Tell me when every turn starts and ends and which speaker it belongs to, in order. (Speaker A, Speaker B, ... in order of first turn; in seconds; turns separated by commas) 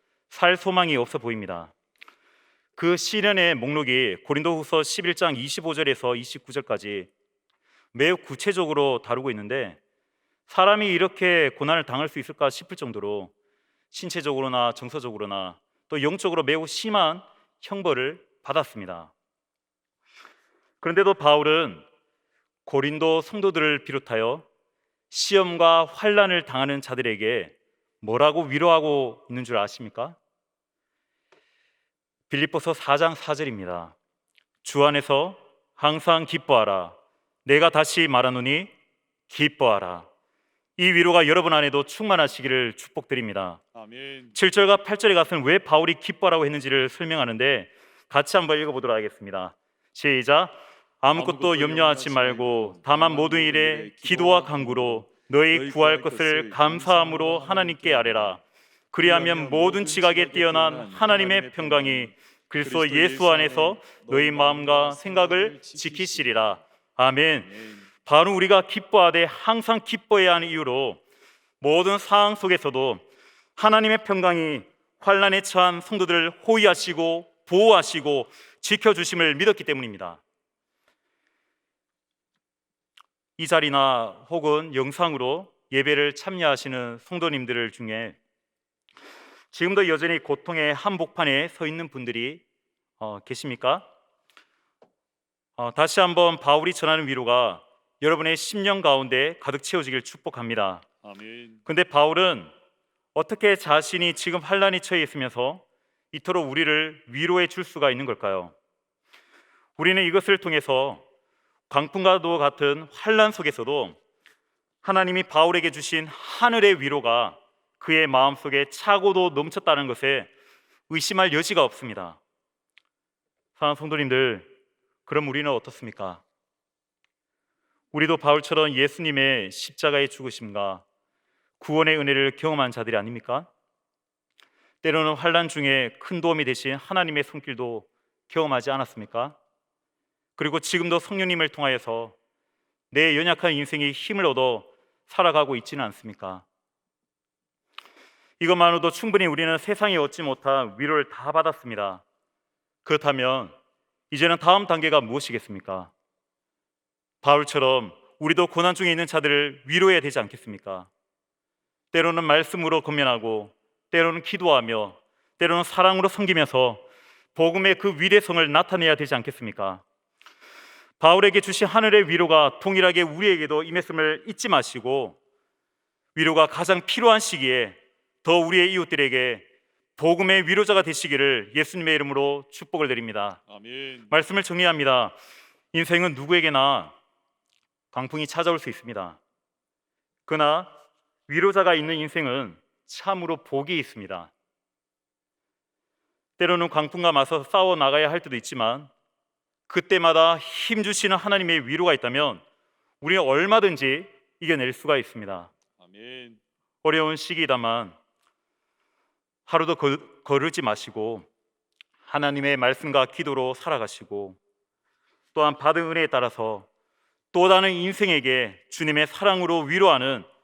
Speaker A: 0.3-1.7, Speaker A: 2.8-7.1, Speaker A: 7.9-9.8, Speaker A: 10.5-13.3, Speaker A: 13.9-19.1, Speaker A: 20.8-21.8, Speaker A: 22.6-24.4, Speaker A: 25.1-30.2, Speaker A: 32.3-33.9, Speaker A: 34.6-38.7, Speaker A: 39.3-40.1, Speaker A: 40.8-43.6, Speaker B: 43.7-44.4, Speaker A: 44.3-58.4, Speaker B: 51.1-58.4, Speaker A: 58.9-67.5, Speaker B: 59.0-66.6, Speaker B: 67.4-67.9, Speaker A: 68.0-71.0, Speaker A: 71.6-73.0, Speaker A: 73.5-80.2, Speaker A: 83.4-88.2, Speaker A: 89.5-92.4, Speaker A: 93.0-93.9, Speaker A: 95.6-100.8, Speaker B: 101.0-101.6, Speaker A: 101.7-102.5, Speaker A: 103.1-108.5, Speaker A: 109.8-111.0, Speaker A: 111.7-114.0, Speaker A: 114.8-120.3, Speaker A: 120.9-122.2, Speaker A: 123.6-124.5, Speaker A: 125.0-126.2, Speaker A: 127.9-130.8, Speaker A: 131.6-133.5, Speaker A: 134.8-139.3, Speaker A: 140.4-142.1, Speaker A: 142.9-146.4, Speaker A: 148.4-152.0, Speaker A: 152.8-153.5, Speaker A: 154.1-155.9, Speaker A: 157.2-160.9, Speaker A: 161.9-166.8, Speaker A: 167.3-169.8, Speaker A: 171.0-175.2, Speaker A: 176.1-179.4, Speaker A: 180.0-183.4, Speaker B: 183.5-184.1, Speaker A: 184.1-185.2, Speaker A: 185.7-186.9, Speaker A: 187.9-189.2, Speaker A: 190.3-190.7, Speaker A: 191.3-194.3, Speaker A: 196.4-198.9, Speaker A: 199.7-202.4, Speaker A: 203.0-205.5, Speaker B: 205.8-206.4, Speaker A: 206.8-207.9, Speaker A: 209.5-211.3, Speaker A: 212.1-214.4, Speaker A: 215.3-216.7, Speaker A: 217.3-220.3